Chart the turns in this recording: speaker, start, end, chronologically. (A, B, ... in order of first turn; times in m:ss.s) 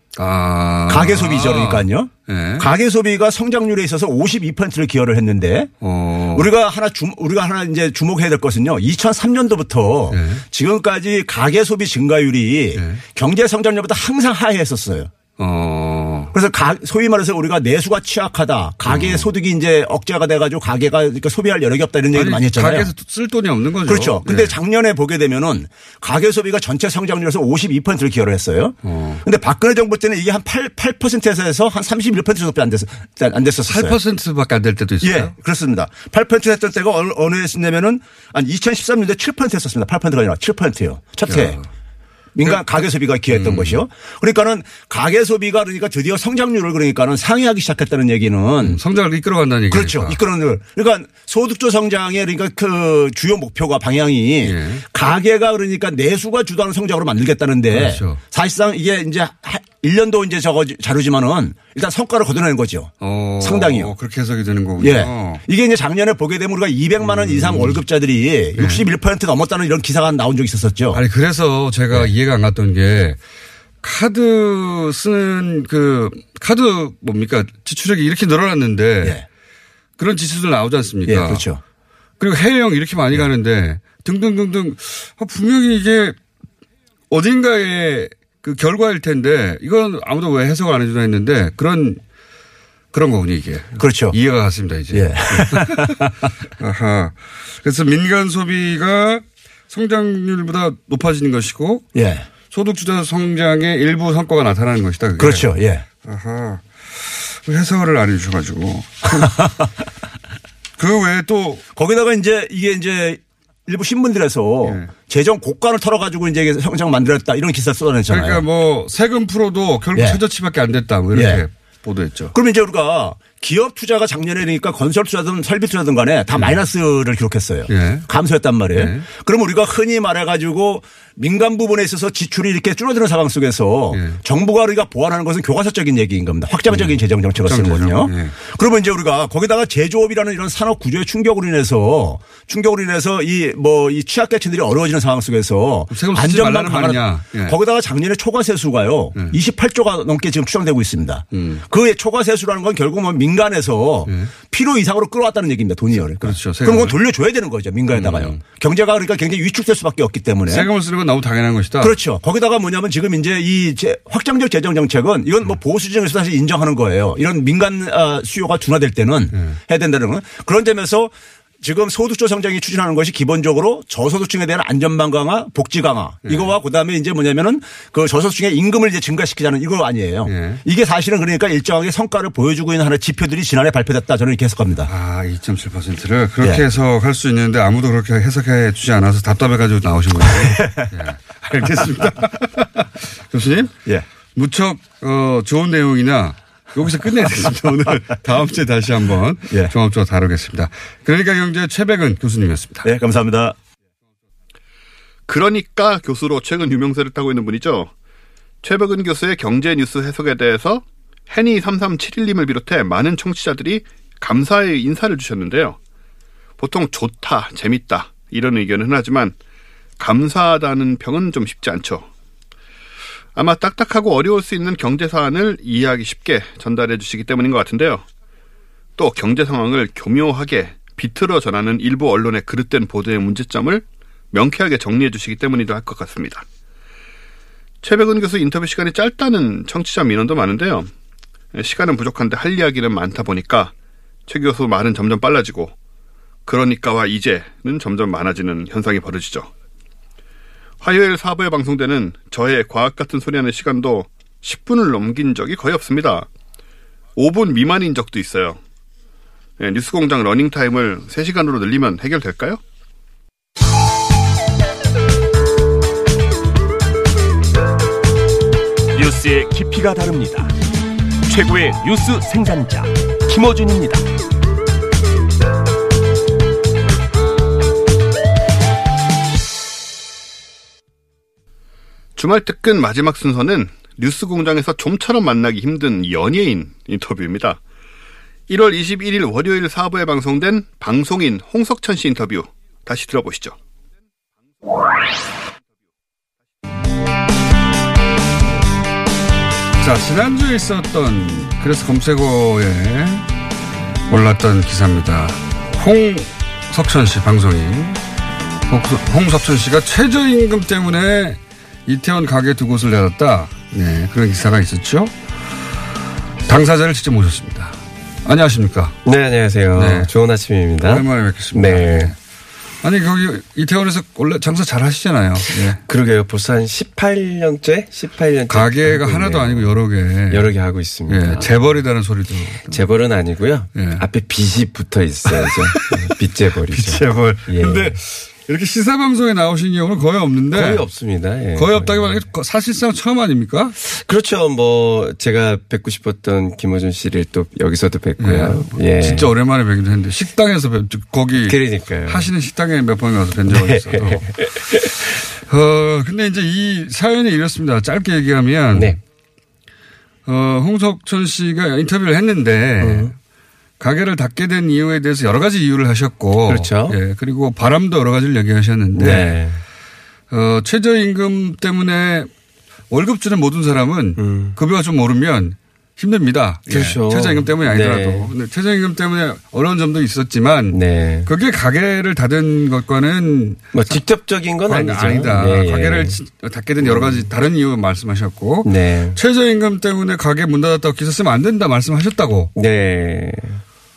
0:00.2-0:02.7 A
0:00.9-0:05.7 B
0:05.8-0:06.5 A
0:06.3-0:15.1 B
0:10.1-0:10.4 A
0:12.8-0:13.0 A
0:15.4-0:16.3 A
0:16.3-0:22.9 B
0:18.9-0:19.3 A
0:22.1-0:24.6 A
0:23.9-0:34.0 B
0:28.8-0:29.2 A
0:33.7-0:35.4 A
0:35.0-0:41.6 B
0:41.3-0:41.7 A
0:42.4-0:48.8 B
0:43.3-0:43.8 A
0:48.6-0:50.2 A
0:49.7-1:03.9 B
0:54.4-0:54.8 A
0:57.7-0:58.2 A
1:03.0-1:05.4 A
1:04.8-1:11.0 B
1:07.0-1:07.8 A
1:08.6-1:08.9 A
1:10.9-1:13.2 A
1:13.8-1:19.2 A
1:20.0-1:21.4 A
1:21.1-1:21.6 B
1:22.2-1:26.2 A
1:27.1-1:32.0 A
1:32.9-1:41.9 A
1:33.8-1:34.2 B
1:34.9-1:36.1 B
1:42.0-1:42.3 B
1:42.5-1:49.4 A
1:45.2-1:45.8 B
1:49.2-1:49.5 B
1:50.8-1:51.6 A
1:51.8-1:58.4 B
1:54.6-1:54.9 A
1:58.1-2:02.4 A
2:00.0-2:00.2 B
2:01.1-2:01.4 B
2:02.3-2:40.7 B
2:06.4-2:06.6 A
2:07.7-2:08.1 A
2:08.7-2:09.0 A
2:13.9-2:14.2 A
2:16.7-2:18.4 A
2:25.9-2:27.6 A
2:31.3-2:31.6 A
2:36.2-2:37.0 A
2:37.9-2:38.4 A
2:40.5-2:42.0 A
2:41.8-3:04.9 B
2:49.3-2:49.6 A
2:56.3-2:56.5 A
3:00.3-3:00.6 A
3:04.9-3:13.7 A
3:10.3-3:10.9 B
3:14.4-3:22.9 A
3:22.8-3:23.6 B
3:25.3-3:27.9 C
3:28.6-3:35.8 C
3:36.6-3:39.4 C
3:40.0-3:42.1 C
3:43.4-3:48.0 C
3:49.0-3:56.4 C
3:57.8-4:00.9 C
4:01.5-4:03.7 C
4:04.3-4:05.7 C
4:06.5-4:09.5 C
4:10.8-4:16.3 C
4:17.2-4:18.6 C
4:19.6-4:22.6 C
4:28.9-4:30.6 D
4:31.3-4:34.1 D
4:42.2-4:47.6 C
4:48.5-4:53.6 C
4:59.8-5:03.3 A
5:04.1-5:08.0 A
5:08.7-5:15.1 A
5:16.5-5:19.0 A
5:19.0-5:22.1 E
5:19.8-5:20.1 A
5:20.8-5:22.2 A
5:22.8-5:25.8 A
5:25.9-5:29.8 E
5:28.5-5:30.5 A
5:30.3-5:31.6 E
5:31.1-5:32.8 A
5:32.7-5:38.0 E
5:33.7-5:34.1 A
5:35.3-5:36.1 A
5:36.7-5:40.8 A
5:40.5-5:42.2 E
5:41.6-5:43.8 A
5:43.8-5:49.3 E
5:48.2-5:54.2 A
5:51.4-5:52.3 E
5:53.5-5:55.1 E
5:55.5-5:59.0 A
5:58.7-5:59.0 E
6:00.3-6:03.1 A
6:02.8-6:03.1 E
6:03.8-6:09.4 A
6:06.5-6:07.0 E
6:09.0-6:09.6 E
6:10.3-6:12.3 A
6:12.9-6:24.0 A
6:14.2-6:14.6 E
6:16.7-6:18.3 E
6:20.7-6:21.3 E
6:23.7-6:26.2 E
6:24.7-6:32.5 A
6:26.8-6:27.3 E
6:28.6-6:29.2 E
6:32.6-6:33.6 E